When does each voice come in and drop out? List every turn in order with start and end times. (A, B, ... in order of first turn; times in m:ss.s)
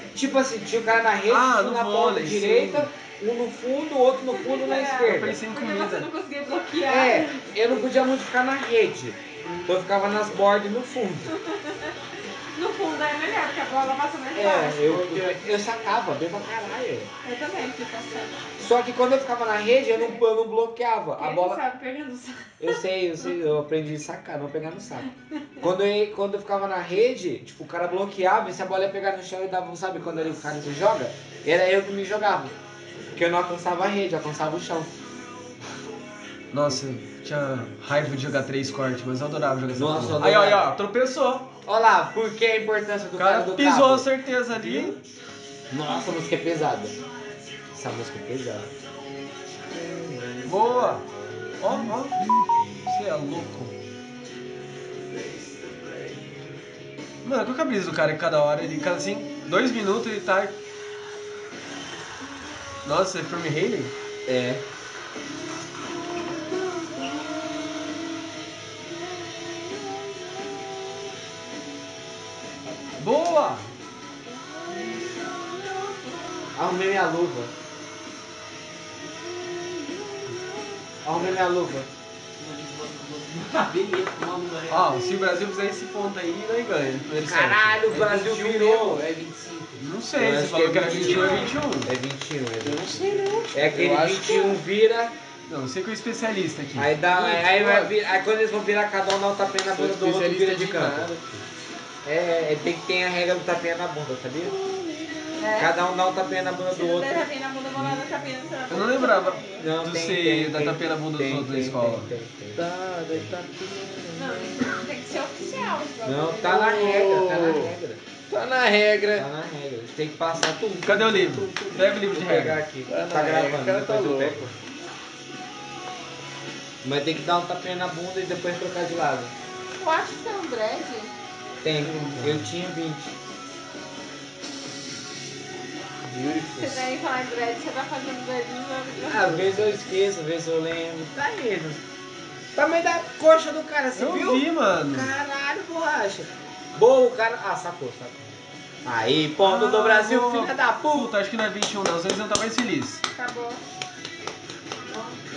0:00.1-0:05.4 A
0:01.3-0:02.9 B
0:04.3-0:07.5 C
0:05.0-0:06.1 B
0:06.9-0:11.3 A
0:11.3-0:11.9 C
0:12.5-0:15.0 C
0:14.3-0:17.1 A
0:14.8-0:15.4 D
0:17.2-0:18.4 C
0:18.6-0:21.6 A
0:21.2-0:22.8 C
0:22.6-0:25.1 A
0:25.6-0:32.5 A
0:33.1-0:34.9 A
0:36.5-0:41.5 B
0:39.7-0:40.7 A
0:41.6-0:44.1 A
0:43.2-0:45.0 B
0:45.7-0:47.0 A
0:47.7-0:48.7 A
0:50.4-0:51.0 B
0:51.6-0:52.2 B
0:52.9-0:53.7 B
0:57.2-1:00.5 B
1:02.8-1:03.9 B
1:04.3-1:04.6 A
1:13.0-1:13.7 B
1:16.5-1:17.5 A
1:21.0-1:21.9 A
1:22.4-1:25.0 E
1:24.7-1:27.8 B
1:27.2-1:29.0 A
1:27.9-1:29.9 D
1:29.8-1:31.9 B
1:30.2-1:35.1 A
1:30.8-1:31.2 D
1:30.8-1:31.5 C
1:32.6-1:34.6 D
1:35.4-1:36.9 B
1:36.8-1:41.2 A
1:37.1-1:37.9 D
1:39.7-1:41.4 D
1:42.0-1:44.6 A
1:44.6-1:45.3 D
1:45.3-1:45.8 C
1:45.5-1:47.2 A
1:46.7-1:49.7 C
1:48.7-1:52.1 B
1:49.6-1:53.4 A
1:52.6-1:54.7 D
1:54.1-1:56.8 C
1:56.0-1:58.0 A
1:56.4-1:57.7 D
1:58.3-1:59.3 D
1:59.1-2:04.5 A
2:00.8-2:02.6 B
2:02.9-2:04.5 D
2:06.8-2:09.3 A
2:09.8-2:11.1 C
2:11.6-2:13.1 A
2:11.8-2:12.4 D
2:16.0-2:16.9 D
2:16.6-2:19.6 C
2:19.1-2:21.8 A
2:22.6-2:31.1 A
2:23.9-2:25.1 B
2:29.4-2:33.0 B
2:33.1-2:33.6 C